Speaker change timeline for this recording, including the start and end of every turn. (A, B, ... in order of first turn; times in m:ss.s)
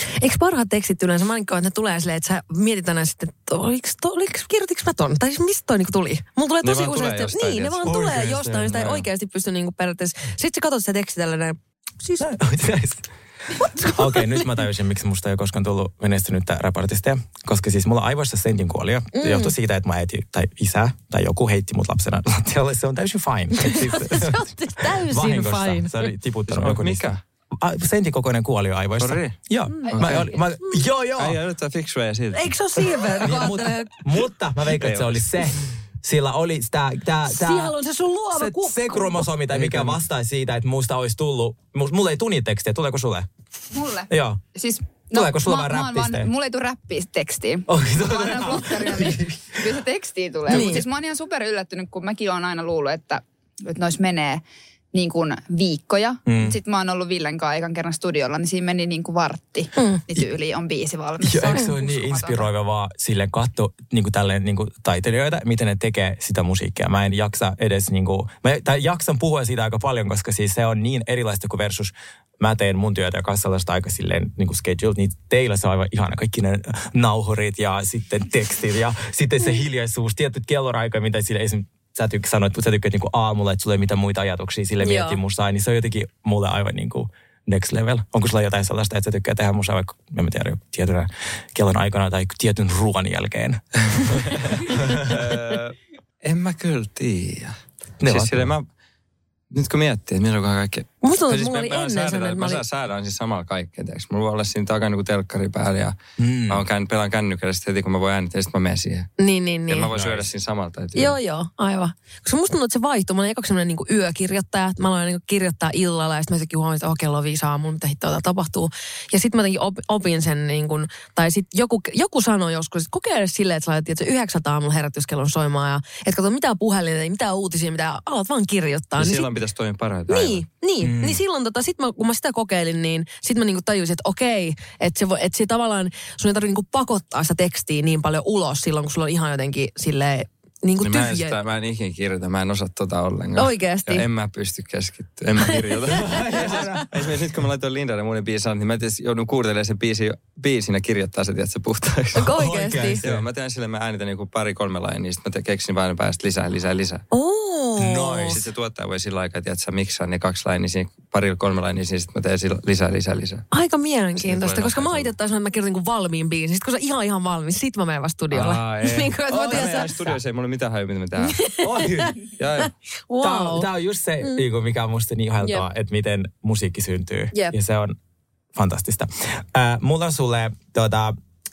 0:00.2-0:12.3 A
0:06.6-0:07.8 B
0:07.8-0:09.0 C
0:12.2-0:13.1 C
0:13.6-0:14.4 A
0:13.8-0:31.4 C
0:19.1-0:19.5 A
0:23.6-0:26.1 A
0:26.5-0:27.2 B
0:29.0-0:29.4 B
0:29.8-0:30.8 A
0:29.9-0:30.3 B
0:31.2-0:32.5 B
0:32.3-0:34.0 A
0:33.2-0:37.7 C
0:34.7-0:35.3 B
0:37.3-0:39.2 A
0:38.3-0:43.3 C
0:39.5-0:40.0 B
0:43.7-1:02.5 D
0:44.1-0:44.4 C
0:45.1-0:46.3 C
0:47.7-0:49.6 C
0:50.5-0:50.8 A
0:50.5-0:50.8 C
0:56.3-0:56.6 C
0:59.8-1:00.0 A
1:01.2-1:35.1 C
1:24.8-1:25.2 A
1:34.0-1:38.7 B
1:38.0-1:38.5 C
1:39.5-1:46.0 B
1:41.0-1:42.6 A
1:46.2-1:46.6 C
1:46.5-1:49.1 B
1:49.2-1:49.9 A
1:49.7-1:51.2 B
1:49.9-1:50.3 C
1:50.9-2:09.3 A
2:08.9-2:10.4 B
2:10.1-2:21.4 A
2:10.8-2:11.2 C
2:20.8-2:32.3 B
2:23.4-2:24.1 A
2:25.9-2:26.9 C
2:26.4-2:26.8 A
2:32.1-2:33.0 A
2:32.2-2:33.2 C
2:33.0-2:37.0 B
2:37.1-2:38.4 A
2:37.8-2:38.4 C
2:38.3-2:43.4 B
2:43.5-2:50.1 A
2:44.2-2:45.1 B
2:48.3-2:51.4 B
2:49.3-2:50.0 C
2:51.2-2:52.1 A
2:51.6-2:52.2 C
2:52.4-2:52.7 B
2:52.6-2:53.7 A
2:53.2-2:58.0 C
2:55.4-2:55.6 A
2:58.5-3:01.1 C